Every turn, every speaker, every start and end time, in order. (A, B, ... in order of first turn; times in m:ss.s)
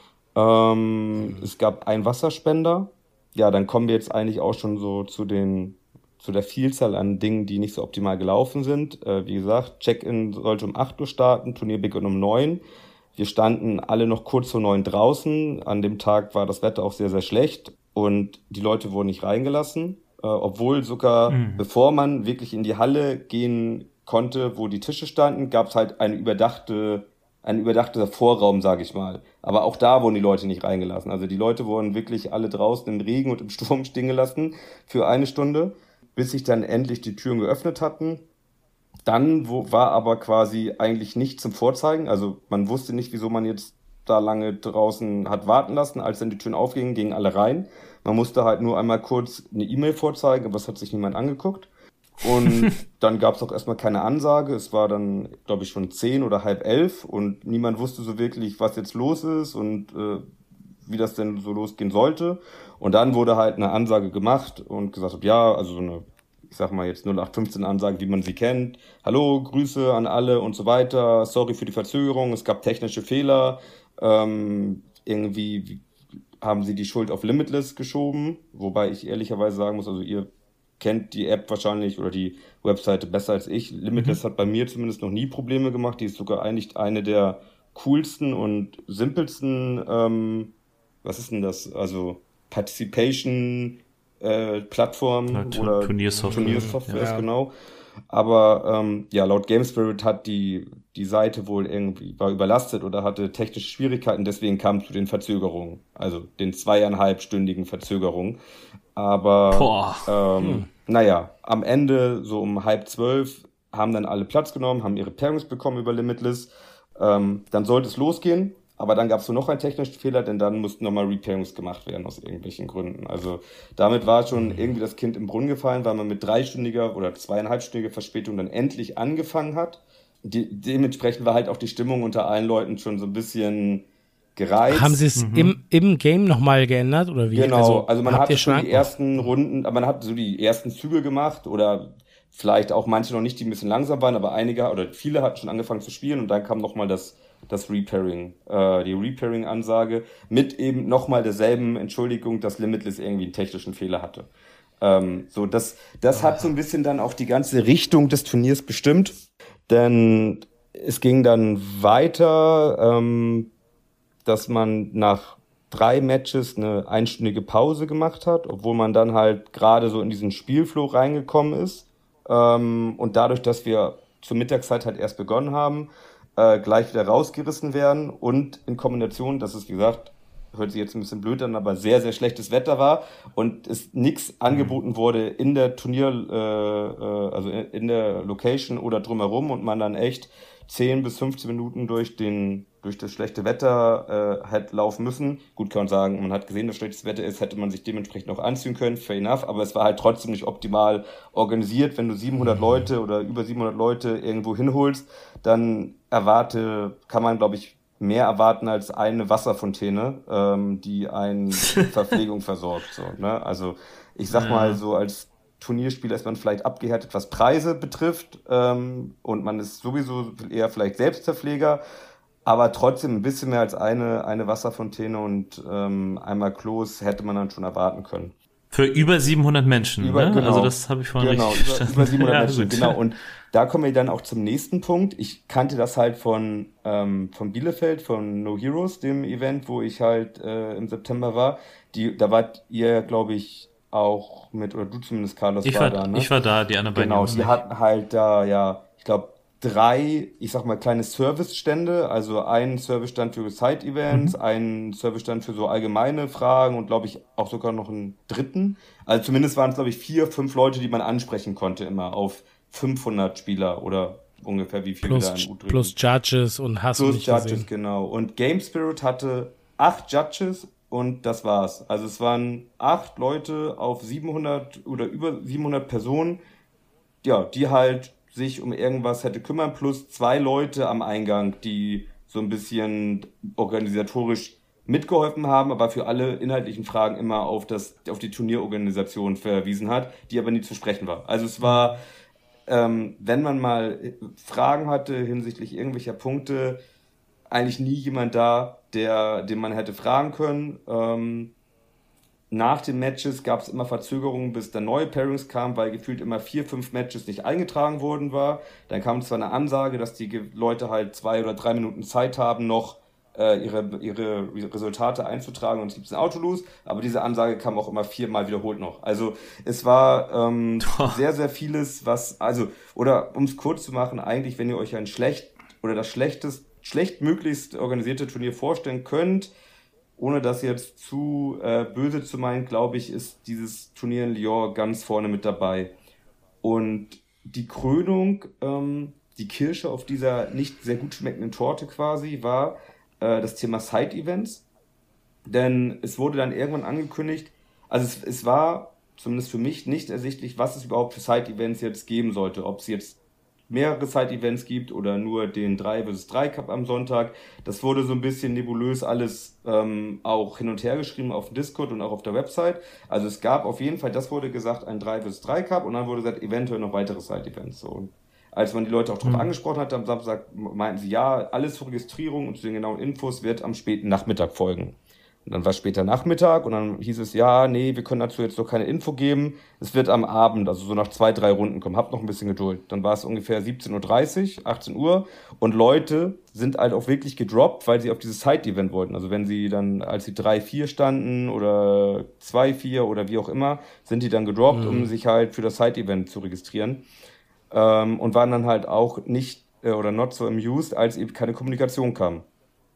0:00.4-0:12.6 A
0:13.2-0:38.2 A
0:21.3-0:21.6 B
0:39.1-0:51.7 A
0:52.2-1:00.2 A
1:00.9-1:15.8 A
1:16.4-1:20.3 A
1:20.8-1:30.5 A
1:31.0-1:37.5 A
1:35.3-1:37.1 B
1:36.3-1:37.3 C
1:38.1-1:48.4 A
1:49.0-2:13.8 A
1:49.5-1:50.1 B
1:50.4-1:50.7 C
2:14.4-2:15.0 A
2:14.7-2:18.9 C
2:15.2-2:15.6 B
2:17.3-2:34.3 A
2:34.8-2:39.2 A
2:39.7-2:43.5 A
2:44.2-3:41.8 A
3:04.5-3:04.8 B
3:22.4-3:22.9 B
3:34.3-3:34.8 B
3:42.4-3:48.3 A
3:48.7-3:53.0 B
3:50.0-4:06.3 A
4:05.6-4:07.6 B
4:07.0-4:26.0 A
4:14.1-4:14.4 B
4:25.0-4:27.7 C
4:27.0-4:36.4 A
4:37.2-4:52.0 A
4:51.6-4:51.9 B
4:52.7-4:56.8 A
4:57.5-5:01.5 A
5:02.5-5:29.5 A
5:20.8-5:21.2 B
5:30.2-5:35.9 A
5:36.6-5:44.6 A
5:45.5-5:53.2 A
5:53.7-6:37.0 A
6:09.2-6:09.5 B
6:34.7-6:35.1 C
6:37.7-6:42.5 A